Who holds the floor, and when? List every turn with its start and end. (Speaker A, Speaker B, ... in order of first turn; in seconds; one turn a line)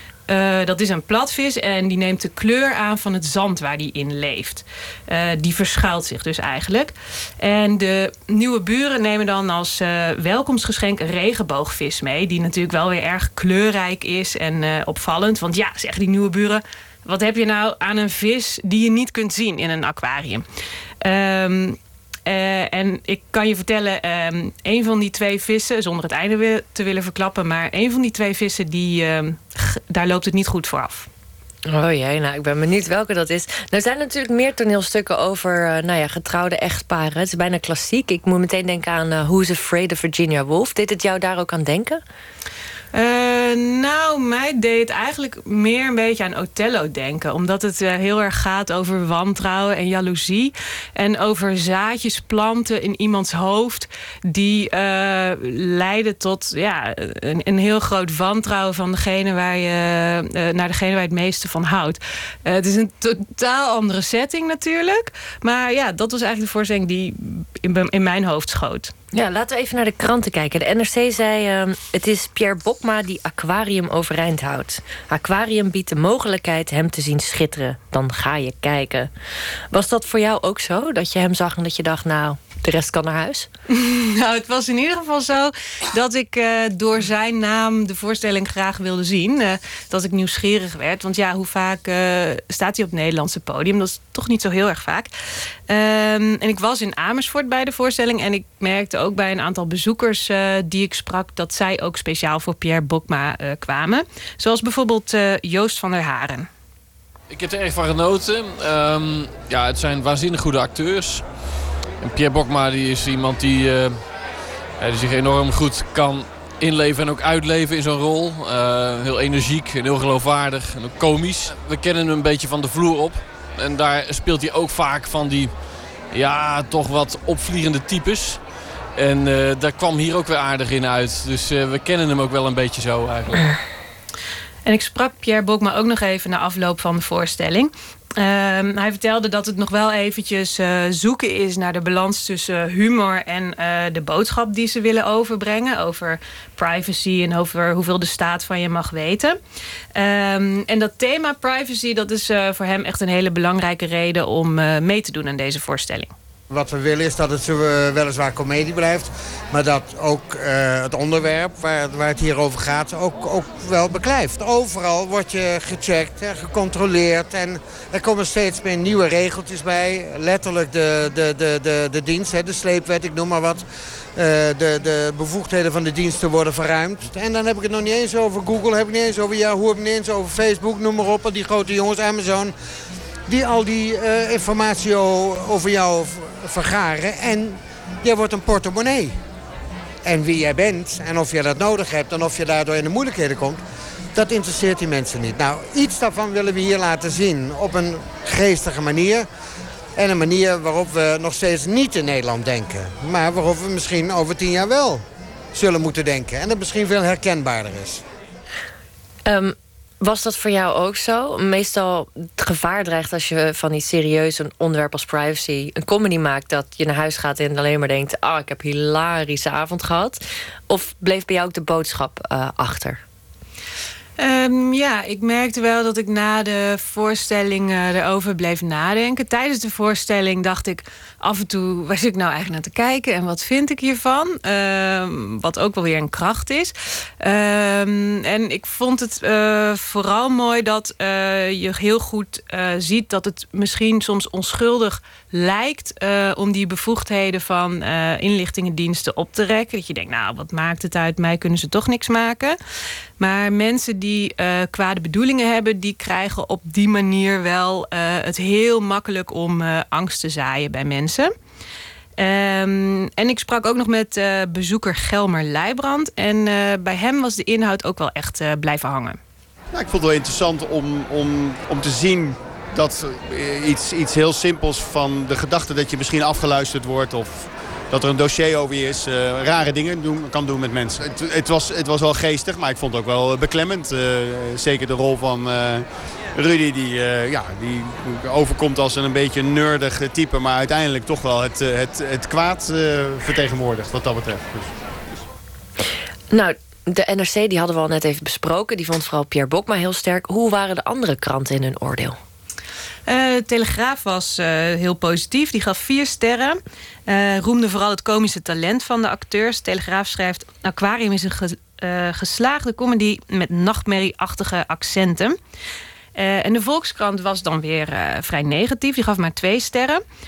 Speaker A: 0.3-20.4
Speaker A: 21.0-31.1
Speaker B: 31.7-42.0
Speaker A: 42.9-68.9
Speaker B: 69.1-79.1
Speaker B: 79.7-83.5
Speaker A: 83.7-95.1
Speaker A: 95.7-106.5
Speaker C: 107.3-111.2
Speaker C: 112.0-114.0
Speaker C: 114.8-125.5
Speaker C: 126.1-128.4
Speaker C: 128.9-133.5
Speaker A: 134.6-149.4
Speaker A: 149.9-156.1
Speaker D: 156.5-182.5
Speaker D: 183.3-189.2
Speaker D: 190.1-193.6
Speaker D: 194.1-199.3
Speaker D: 199.9-208.0
Speaker B: 209.3-220.2
Speaker B: 220.7-223.0
Speaker A: 224.2-252.6
Speaker A: 253.2-261.3
Speaker A: 262.2-269.2
Speaker E: 269.7-294.7
Speaker B: 296.3-302.2
Speaker A: 303.1-315.4
Speaker A: 316.1-320.0